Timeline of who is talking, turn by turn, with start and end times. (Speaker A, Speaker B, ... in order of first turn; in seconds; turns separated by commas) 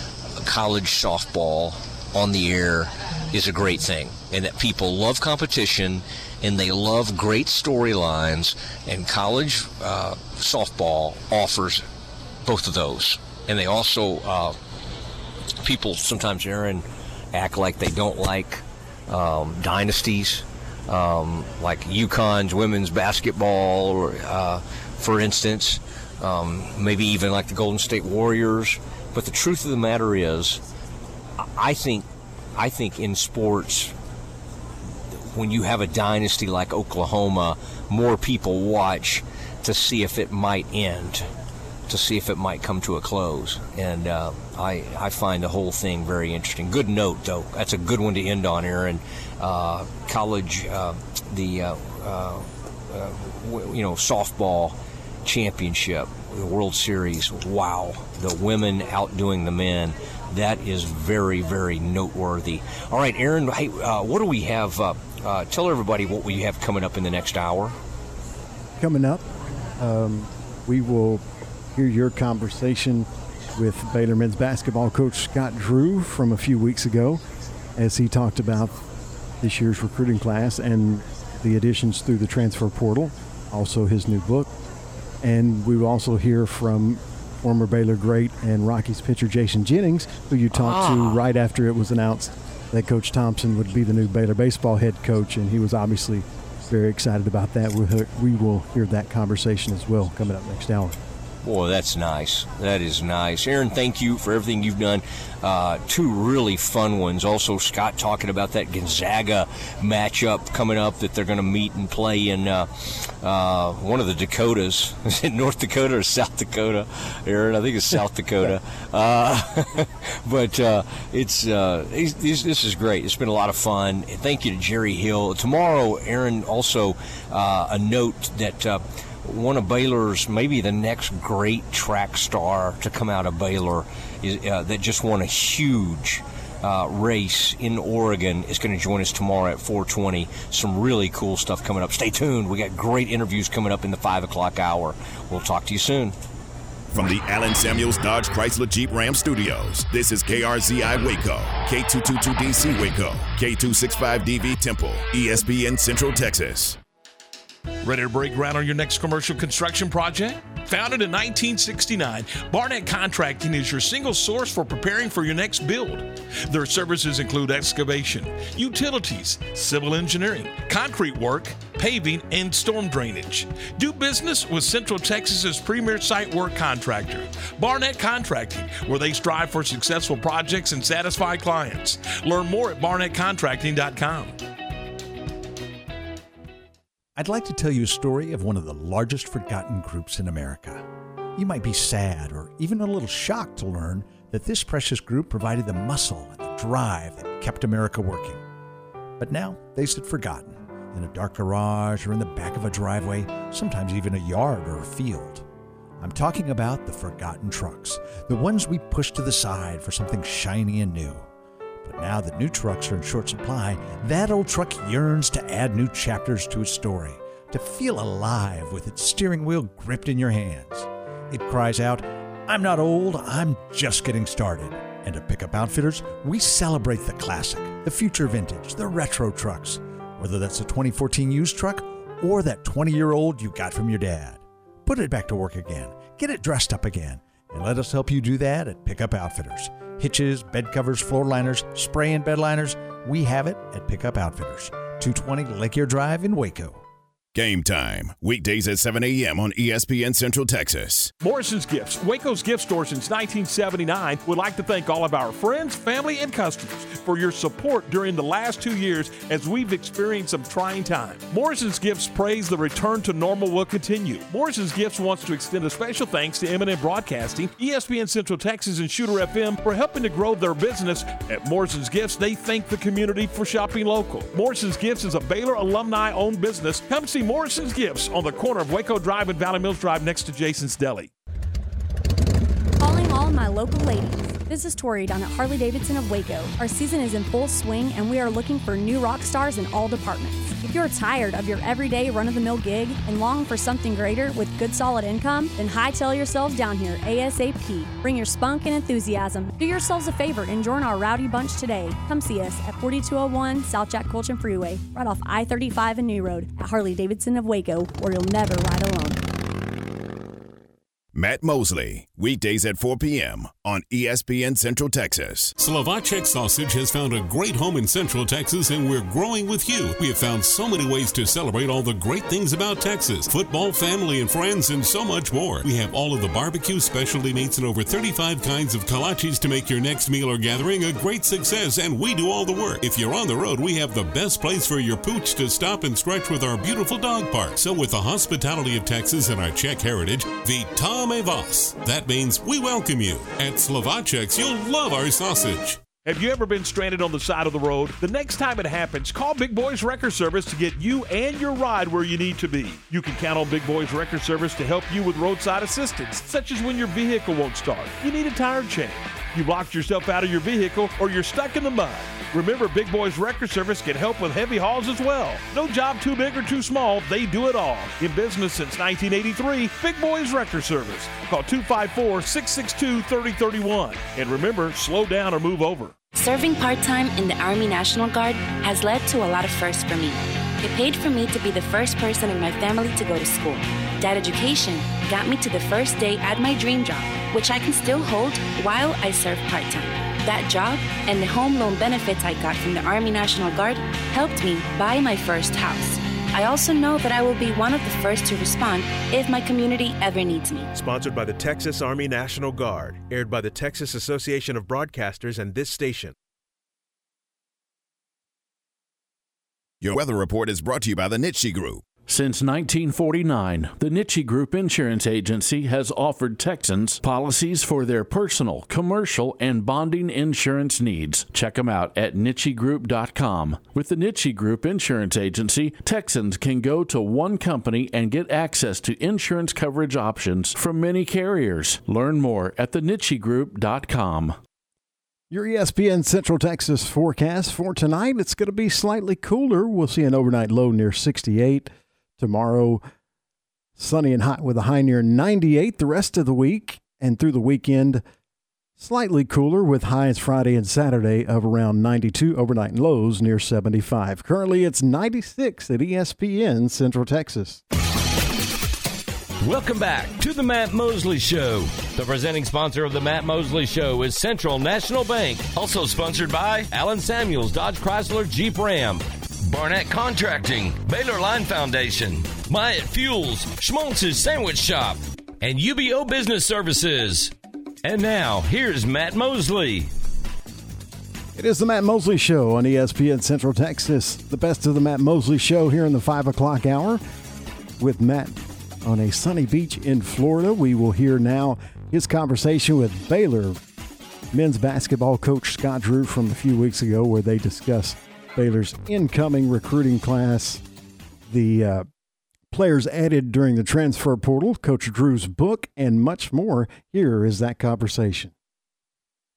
Speaker A: 0.3-11.8, Speaker A: 12.4-14.6, Speaker A: 15.6-30.6, Speaker A: 31.4-33.9, Speaker A: 35.1-41.3, Speaker A: 41.9-67.8, Speaker B: 68.8-69.2, Speaker B: 69.8-71.2, Speaker B: 71.7-77.2, Speaker B: 77.8-78.8, Speaker B: 79.4-84.5, Speaker B: 85.2-101.0, Speaker A: 90.5-91.2, Speaker A: 101.4-146.2, Speaker C: 146.9-156.8, Speaker D: 157.8-184.3, Speaker E: 187.2-190.8, Speaker E: 191.3-198.4, Speaker E: 199.2-205.4, Speaker E: 206.0-211.3, Speaker E: 211.8-246.8, Speaker C: 247.3-251.1, Speaker D: 251.2-281.1, Speaker F: 282.8-309.2, Speaker C: 311.1-315.6, Speaker G: 315.6-345.8, Speaker D: 346.0-375.9, Speaker H: 376.2-400.7, Speaker I: 400.7-406.1, Speaker C: 409.8-411.8, Speaker J: 412.1-434.4, Speaker B: 435.3-442.8, Speaker B: 443.8-448.0, Speaker B: 448.8-457.6, Speaker K: 459.4-477.3, Speaker K: 477.8-479.9, Speaker B: 481.4-487.0, Speaker B: 487.8-493.6, Speaker B: 494.3-500.6, Speaker B: 501.3-501.9, Speaker B: 502.5-508.3